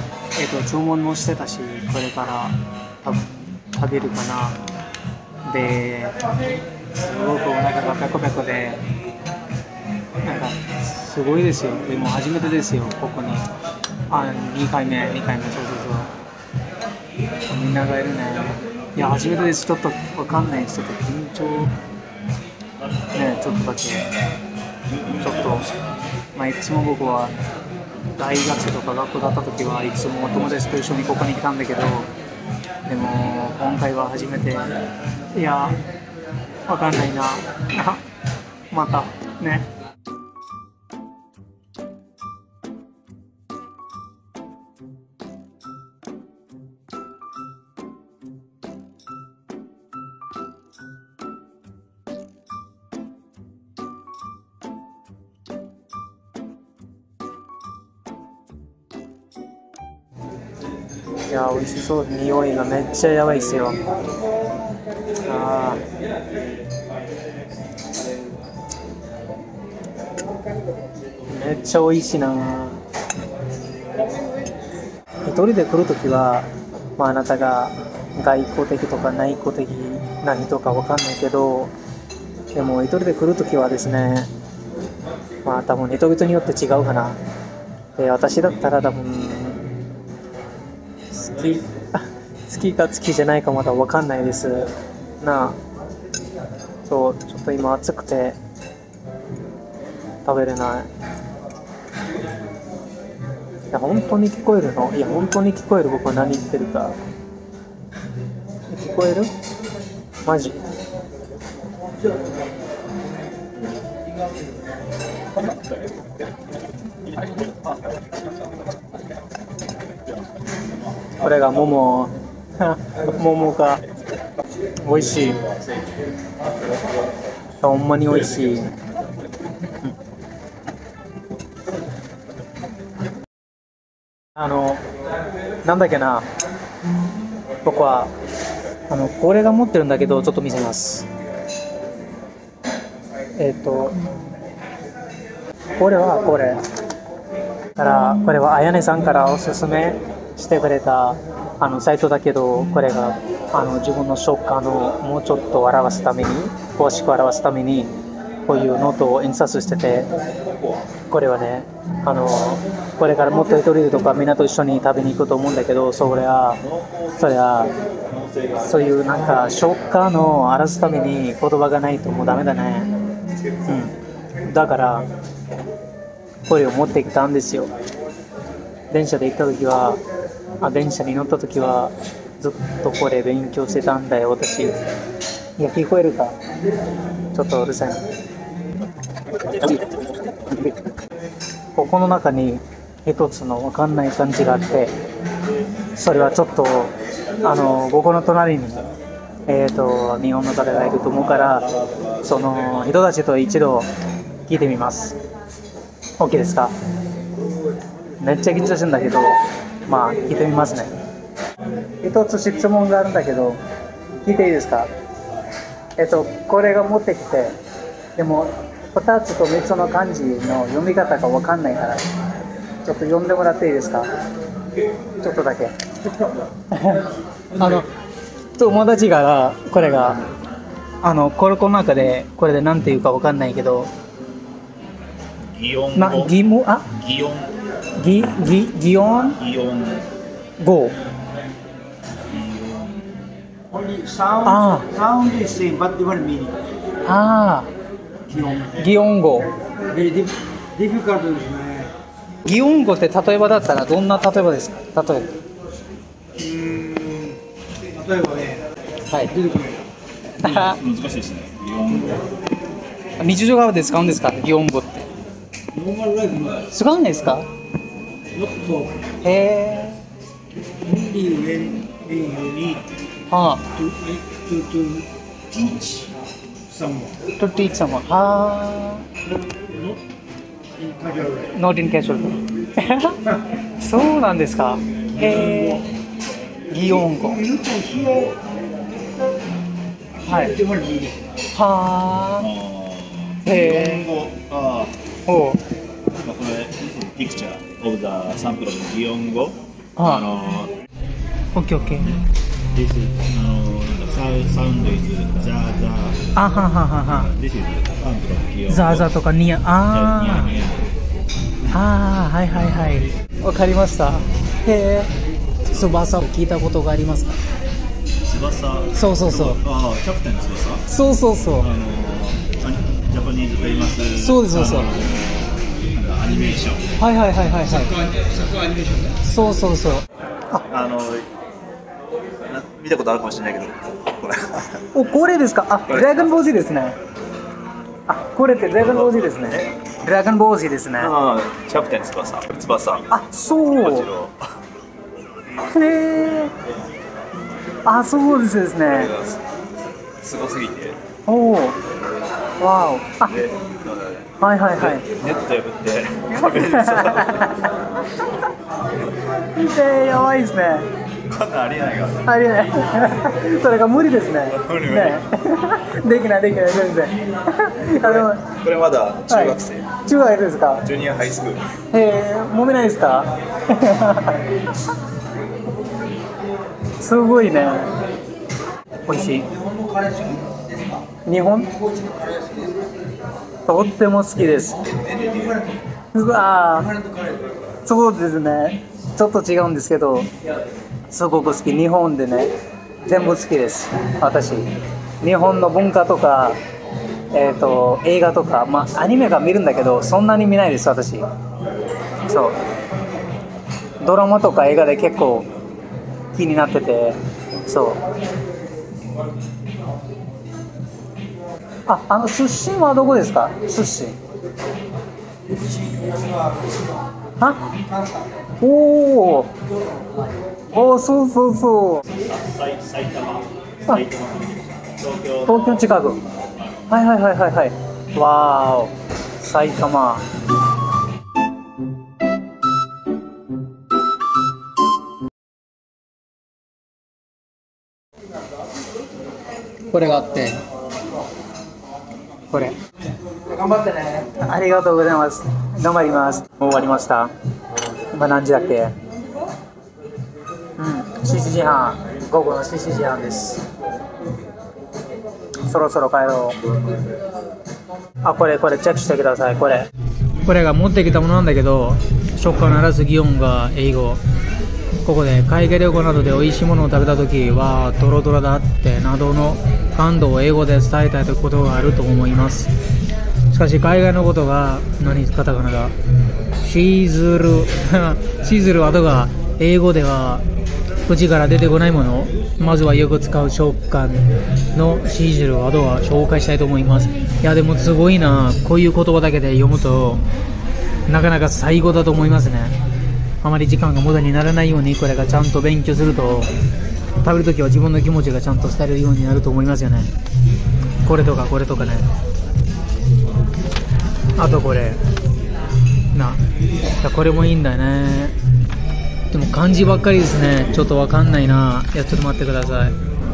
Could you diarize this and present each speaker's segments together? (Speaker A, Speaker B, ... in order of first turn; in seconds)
Speaker A: 0.4-4.6, 5.5-6.2, 6.9-8.8, 10.2-13.5, 14.1-16.1, 17.5-21.8, 23.1-24.1, 25.1-25.7, 26.4-27.4, 28.2-32.1, 32.9-34.7, 35.3-35.8, 36.7-38.0, 38.7-39.7, 61.3-63.8, 65.2-65.8, 71.3-72.8, 75.2-81.7, 82.5-84.3, 85.4-87.2, 88.0-89.7, 91.1-95.6, 96.8-98.4, 100.2-100.9, 103.7-107.0, 108.7-109.3, 110.2-110.6, 121.2-123.8, 124.8-125.4, 127.6-128.7, 134.4-134.8, 135.6-136.3, 137.7-138.1, 138.9-141.1, 143.4-144.0, 145.8-146.6, 147.8-157.9, 158.5-160.1, 161.1-167.7, 168.6-172.9, 173.7-175.1, 176.5-177.7, 178.9-180.0, 180.6-184.8, 185.6-186.3, 187.3-188.1, 191.8-194.9, 195.9-198.8, 199.5-203.9, 204.5-205.2, 206.2-206.7, 208.2-209.3, 209.9-210.9, 212.0-213.6, 214.2-214.9, 216.0-217.6, 218.2-222.1, 222.8-224.1, 225.2-225.8, 226.7-227.9, 228.6-230.2, 231.0-233.9, 236.0-236.9, 238.0-239.4, 240.6-240.9, 244.4-244.9, 247.1-247.7, 248.7-249.5, 252.4-255.3, 259.1-259.4, 260.4-260.8, 263.2-265.1, 266.7-267.5, 269.2-270.0, 273.3-273.7, 277.4-279.1, 281.5-285.9, 286.7-287.5, 290.2-290.6, 291.5-292.5, 293.4-294.1, 295.3-295.6, 300.0-300.3, 301.5-302.1, 306.4-307.3, 308.7-310.6, 311.7-315.1, 315.7-317.4, 318.9-319.6, 320.9-321.7, 324.2-325.0, 327.0-328.0, 329.2-330.6, 334.9-337.0, 338.1-341.1, 343.1-344.1, 345.6-346.5, 347.9-349.1, 351.3-351.8, 352.6-353.4, 354.4-355.1, 356.3-357.8, 359.4-360.9, 362.2-368.6, 369.3-370.9, 371.9-374.6, 377.0-377.9, 379.1-379.5, 381.2-381.7, 383.7-384.9, 386.1-386.9, 387.9-390.3, 391.1-392.5, 393.0-396.6, 397.3-401.3, 402.3-402.6, 404.0-405.5, 406.3-408.0, 411.9-414.2, 417.4-417.7, 418.6-419.5, 420.7-422.0, 425.5-426.2, 426.9-430.3, 439.9-440.6, 442.5-442.8, 443.9-447.3, 448.1-448.9, 450.8-453.6, 455.7-456.6, 458.2-459.9, 460.4-464.2, 465.0-472.7, 473.5-475.9, 476.6-480.4, 481.1-490.3, 491.1-492.8, 493.4-496.5, 497.2-500.1, 501.1-502.1, 504.4-505.0, 506.1-506.4, 507.0-508.4, 509.3-513.0
Speaker B: 235.5-236.3, 236.9-237.5, 239.4-240.1, 242.3-242.9, 260.4-262.2, 292.4-295.0, 296.2-300.7, 302.7-306.3, 307.3-309.1, 309.9-310.9, 318.3-320.8, 321.6-326.9, 330.7-331.3, 332.5-334.8, 338.8-339.7, 341.0-343.1, 343.8-344.4, 348.9-349.4, 350.2-351.0, 353.3-354.3, 354.8-357.6, 361.3-362.3, 364.6-365.2, 368.0-370.0, 370.8-371.7, 385.1-385.6, 422.1-425.6
Speaker C: 243.7-246.6, 248.3-248.7, 249.9-251.9, 256.4-257.4, 257.9-258.6, 259.3-259.8, 265.7-266.6, 268.4-269.0, 270.8-272.9, 273.8-276.1, 276.7-277.2, 280.8-281.5, 285.2-285.8, 287.1-288.4, 290.3-291.2, 328.6-328.9, 379.5-381.0, 382.0-382.7